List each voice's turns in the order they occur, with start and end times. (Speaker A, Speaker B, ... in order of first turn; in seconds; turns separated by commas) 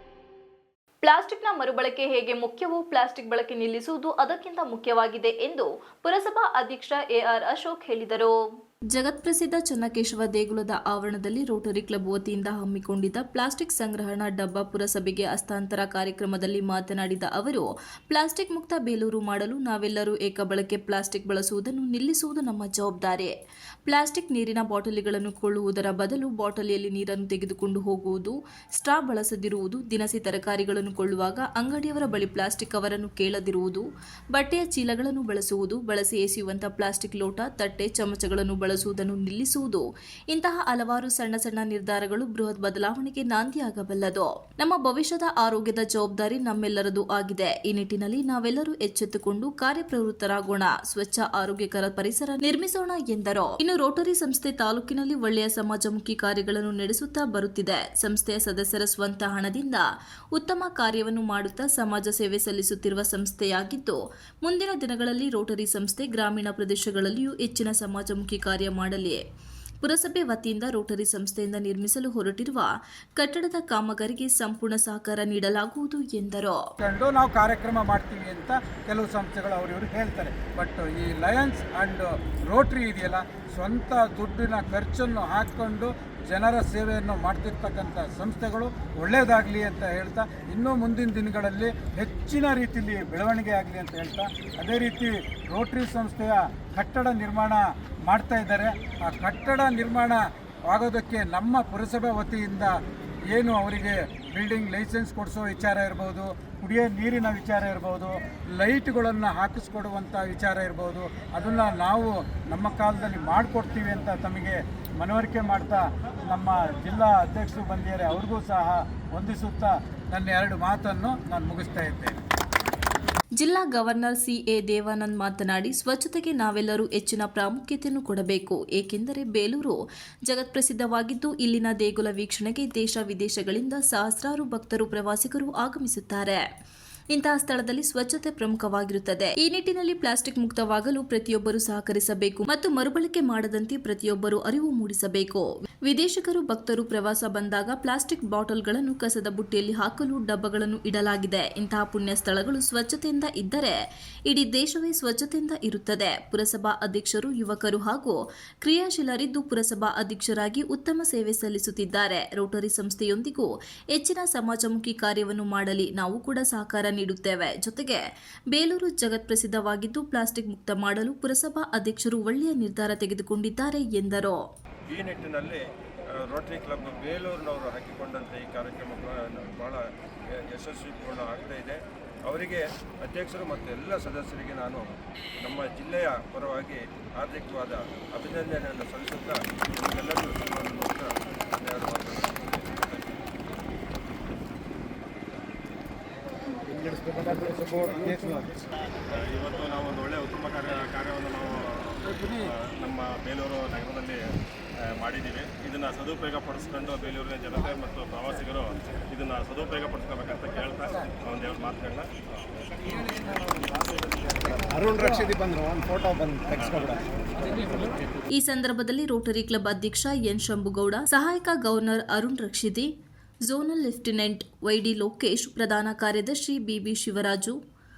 Speaker A: 1.0-8.3, Speaker A: 8.9-23.3, Speaker A: 23.9-69.2, Speaker A: 69.8-76.6, Speaker B: 76.8-102.7, Speaker B: 103.3-122.2, Speaker A: 123.4-136.4, Speaker A: 137.1-153.8, Speaker A: 154.3-174.4, Speaker C: 174.9-175.6, Speaker C: 176.2-179.8, Speaker C: 180.4-193.2, Speaker B: 197.0-198.5, Speaker D: 199.1-204.2, Speaker B: 202.0-202.4, Speaker D: 204.9-212.1, Speaker E: 214.7-216.9, Speaker A: 218.3-222.9, Speaker A: 223.5-227.6